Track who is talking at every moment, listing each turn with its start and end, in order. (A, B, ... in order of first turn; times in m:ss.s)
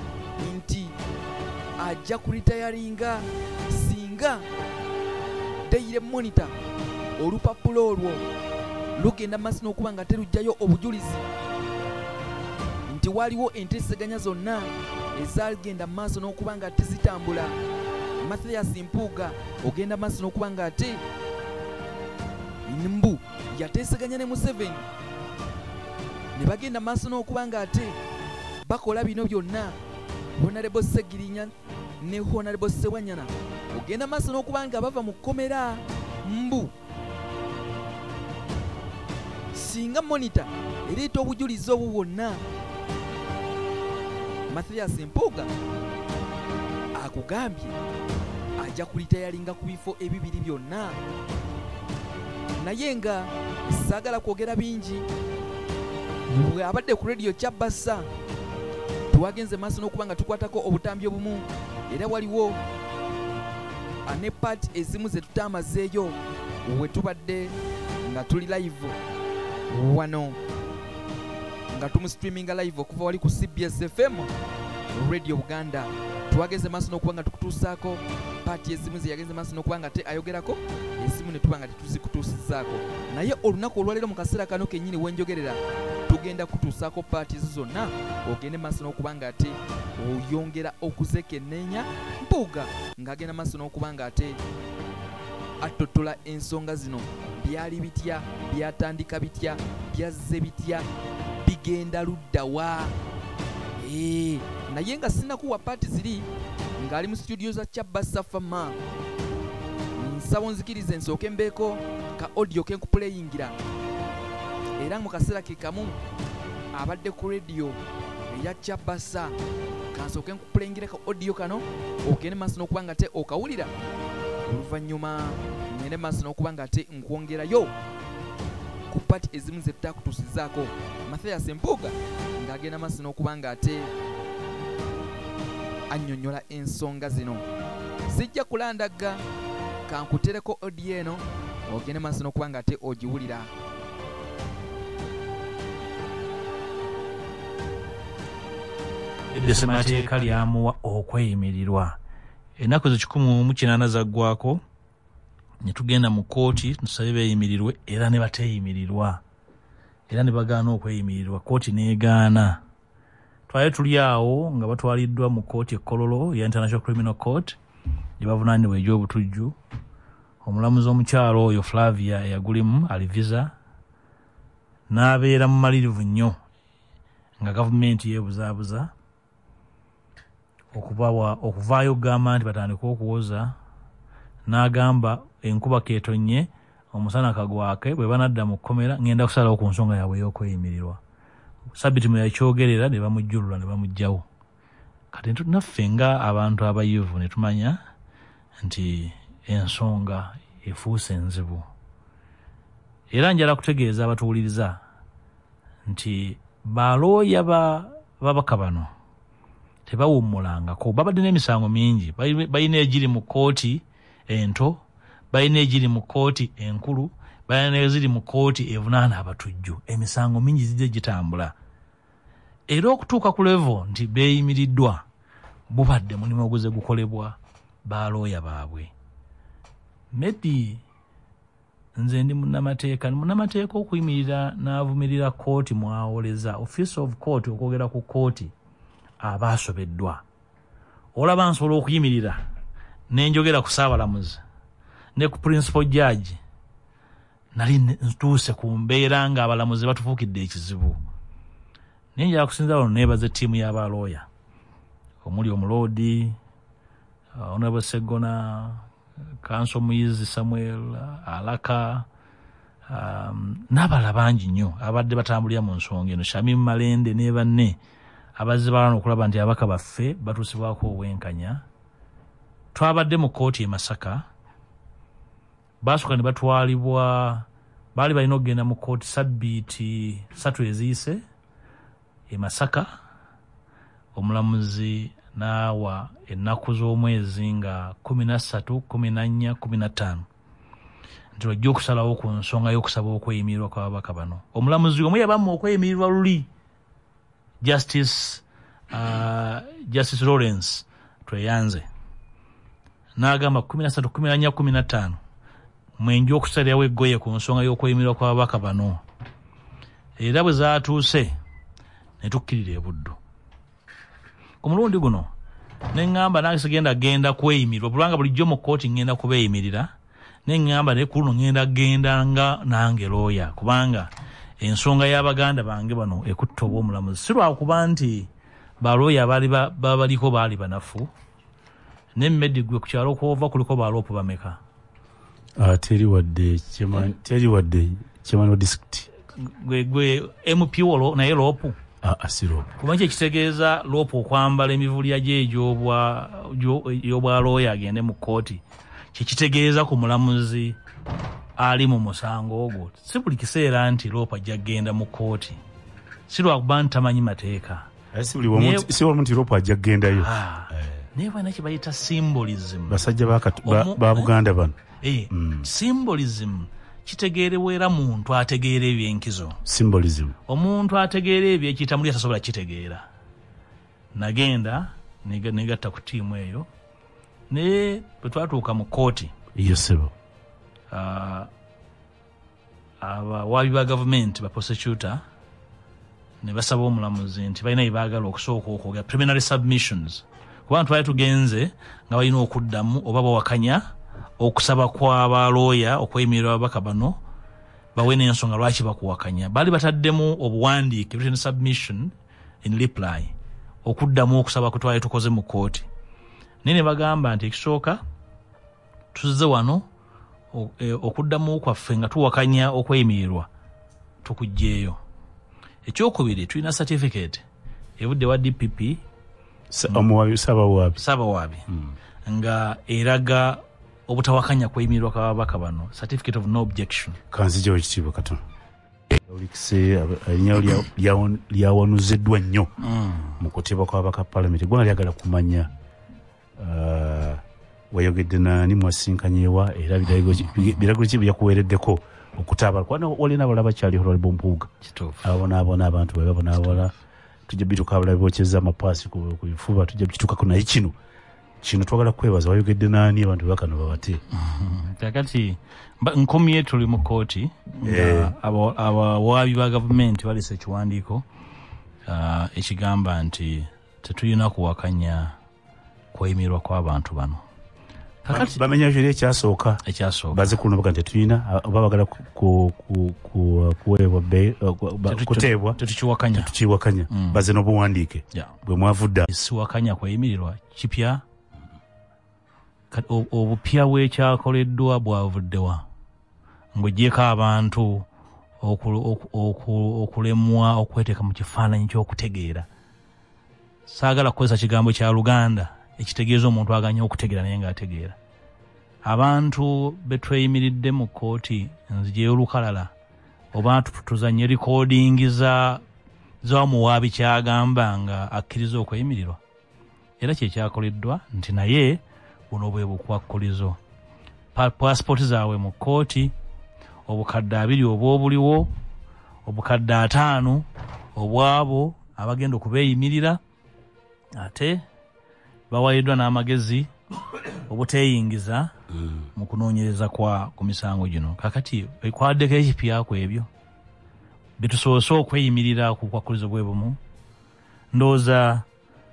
0:00.4-0:01.0 A
0:01.8-0:04.4 A
0:05.7-0:06.5 A
0:07.2-0:08.2 A
0:09.0-0:11.2 A
0:12.9-0:17.5 A
0:18.2-0:21.0 A
0:22.7-0:24.8 A
0:26.4-0:28.0 A
0:28.6-0:29.8 A
0:30.4-0:36.7 A
0:39.5-0:42.4 A
0:44.5-0:45.5 A
0:47.0-0:47.8 A
0:48.6-0:51.0 A
0:52.6-0:55.0 A
0:56.3-0:58.1 A
0:59.1-1:02.6 A
1:04.1-1:09.0 A
1:09.7-1:10.4 A
1:11.7-1:14.3 A
1:14.9-1:34.4 A
1:35.6-1:40.8 A
1:41.4-1:42.9 A
1:43.8-1:46.3 A
1:46.8-1:48.8 A
1:50.0-1:53.5 A
1:54.8-1:55.9 A
1:56.7-1:57.8 A
1:58.3-1:59.3 A
1:59.9-2:03.7 A
2:04.5-2:07.7 A
2:08.9-2:13.9 A
2:15.9-2:17.4 A
2:18.1-2:19.2 A
2:19.9-2:23.5 A
2:29.3-2:32.0 B
2:32.6-2:34.6 B
2:35.6-2:39.2 B
2:40.1-2:42.6 B
2:43.5-2:47.6 B
2:48.2-2:49.6 B
2:50.4-2:53.5 B
2:54.9-2:56.4 B
2:57.4-2:58.9 B
3:00.7-3:03.5 B
3:04.4-3:11.0 B
3:11.7-3:14.2 B
3:15.1-3:17.8 B
3:18.6-3:21.7 B
3:23.1-3:24.8 B
3:25.9-3:28.9 B
3:29.9-3:41.5 B
3:42.7-3:45.0 B
3:45.7-3:48.9 B
3:50.1-3:50.8 B
3:52.0-3:58.5 B
3:59.2-4:00.2 B
4:01.1-4:02.4 B
4:03.1-4:04.4 B
4:05.2-4:06.4 B
4:07.5-4:11.0 B
4:12.2-4:14.2 B
4:15.2-4:16.4 B
4:17.4-4:18.8 B
4:19.4-4:22.1 B
4:22.9-4:27.8 B
4:28.4-4:31.6 B
4:32.7-4:34.2 B
4:35.8-4:41.2 B
4:42.3-4:42.9 B
4:44.1-4:50.2 B
4:51.4-4:56.5 B
4:57.6-5:01.8 B
5:03.2-5:05.2 B
5:06.0-5:09.0 B
5:10.2-5:11.3 B
5:12.2-5:13.2 B
5:14.6-5:15.3 B
5:15.9-5:19.9 B
5:20.4-5:28.3 B
5:28.8-5:31.1 B
5:32.2-5:34.6 B
5:35.6-5:39.1 C
5:39.4-5:41.8 B
5:42.0-5:42.7 C
5:42.8-5:48.6 B
5:49.1-5:50.8 B
5:51.6-5:55.6 B
5:56.3-5:57.9 B
5:58.1-6:01.0 C
5:58.5-5:58.9 B
6:00.2-6:03.1 B
6:02.9-6:04.8 C
6:03.6-6:04.3 B
6:05.0-6:09.6 B
6:05.3-6:05.6 C
6:09.6-6:10.3 C
6:10.5-6:13.0 B
6:14.1-6:16.7 B
6:17.5-6:19.3 B
6:19.5-6:20.1 C
6:20.9-6:21.5 B
6:23.0-6:25.2 B
6:26.4-6:33.8 B
6:34.4-6:37.2 B
6:37.9-6:42.1 B
6:42.6-6:43.3 B
6:43.8-6:45.8 B
6:46.6-6:48.0 B
6:49.1-6:49.8 B
6:50.5-6:53.5 B
6:54.2-6:55.0 B
6:55.8-6:57.4 B
6:58.0-6:59.0 B
6:59.7-7:01.0 C
7:01.0-7:01.6 B
7:01.7-7:01.9 C
7:02.3-7:07.2 B
7:07.3-7:08.4 C
7:09.1-7:12.7 C
7:12.8-7:13.3 B
7:13.4-7:15.7 C
7:16.6-7:24.7 C
7:24.8-7:25.2 B
7:25.2-7:26.9 C
7:27.5-7:31.0 C
7:31.6-7:34.2 C
7:34.3-7:41.2 B
7:37.8-7:38.3 C
7:42.1-7:45.3 B
7:46.1-7:47.4 B
7:48.2-7:48.6 B
7:48.3-7:49.8 C
7:49.8-7:50.6 B
7:50.3-7:55.8 C
7:55.1-7:56.5 B
7:56.3-7:59.2 C
7:57.1-7:57.4 B
7:59.3-8:01.2 B
8:02.9-8:05.8 B
8:06.7-8:08.1 B
8:08.6-8:12.7 B
8:13.9-8:18.2 B
8:19.0-8:22.9 B
8:23.5-8:25.8 B
8:26.4-8:29.4 B
8:30.2-8:33.8 B
8:34.5-8:36.3 B
8:37.1-8:38.7 B
8:39.4-8:43.4 B
8:44.4-8:44.8 B
8:45.7-8:46.9 B
8:47.7-8:48.7 B
8:49.4-8:53.5 B
8:54.6-8:57.0 B
8:57.9-8:58.6 B